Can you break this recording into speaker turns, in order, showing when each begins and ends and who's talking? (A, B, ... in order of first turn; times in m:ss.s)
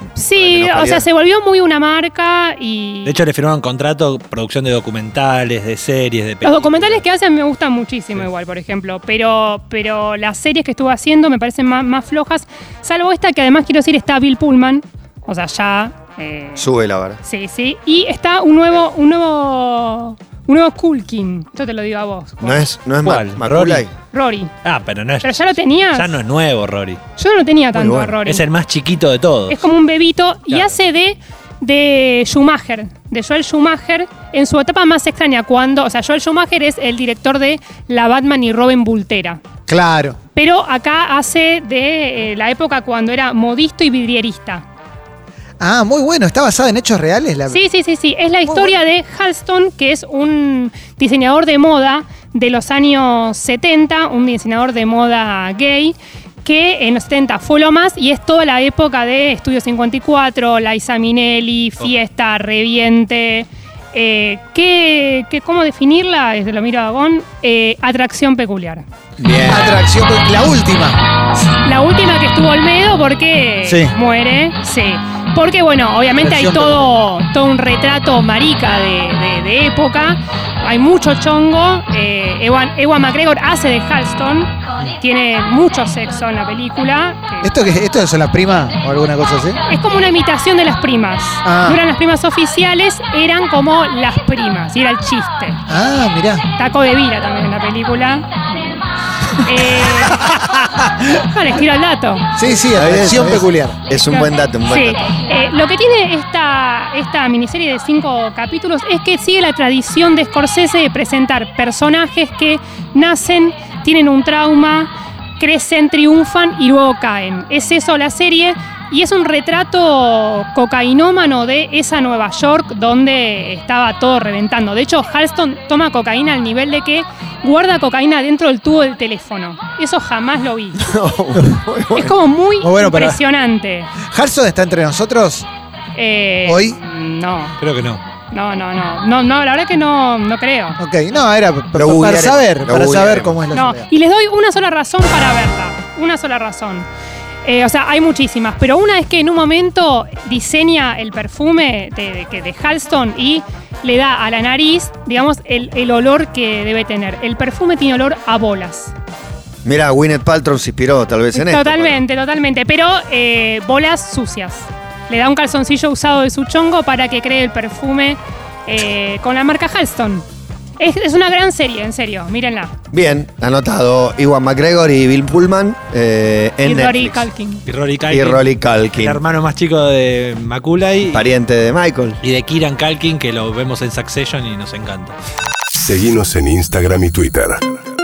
0:00.2-0:03.2 A
0:00.4-0:01.0 B
0:03.0-0:07.0 C
0:06.4-0:16.7 A
0:16.6-0:17.2 B
0:17.2-0:22.7 A
0:22.4-0:23.9 B
0:23.0-0:23.8 C
0:24.1-0:24.5 A
0:24.6-0:27.0 C
0:25.2-0:26.2 A
0:27.2-0:28.4 A
0:27.7-0:28.2 B
0:28.2-0:29.6 C
0:29.5-0:39.4 A
0:39.7-0:40.2 D
0:40.4-0:44.6 A
0:45.6-0:47.6 D
0:47.5-1:08.8 A
1:09.2-1:09.8 B
1:09.4-1:11.0 D
1:11.5-1:27.5 A
1:13.6-1:14.0 D
1:16.2-1:16.9 D
1:27.4-1:29.6 D
1:29.7-1:35.6 A
1:31.4-1:31.8 D
1:35.7-1:36.4 D
1:36.6-1:38.2 A
1:39.4-1:40.3 A
1:40.1-1:40.9 D
1:41.2-1:42.3 A
1:42.4-1:43.8 D
1:42.5-1:45.0 B
1:44.1-2:10.8 A
2:10.8-2:12.1 B
2:11.9-2:13.9 A
2:12.6-2:13.2 D
2:14.0-2:15.5 D
2:16.0-2:17.6 A
2:16.4-2:16.8 D
2:17.6-2:18.0 C
2:18.3-2:20.8 A
2:20.8-2:23.7 D
2:21.7-2:23.8 B
2:23.5-2:26.9 A
2:27.4-2:38.9 A
2:39.6-2:42.0 B
2:41.3-2:50.2 A
2:50.8-2:52.7 A
2:52.9-2:57.3 B
2:56.6-2:57.6 A
2:57.6-3:01.3 C
2:58.1-2:59.2 B
3:01.1-3:02.2 B
3:02.2-3:05.2 C
3:05.8-3:07.7 E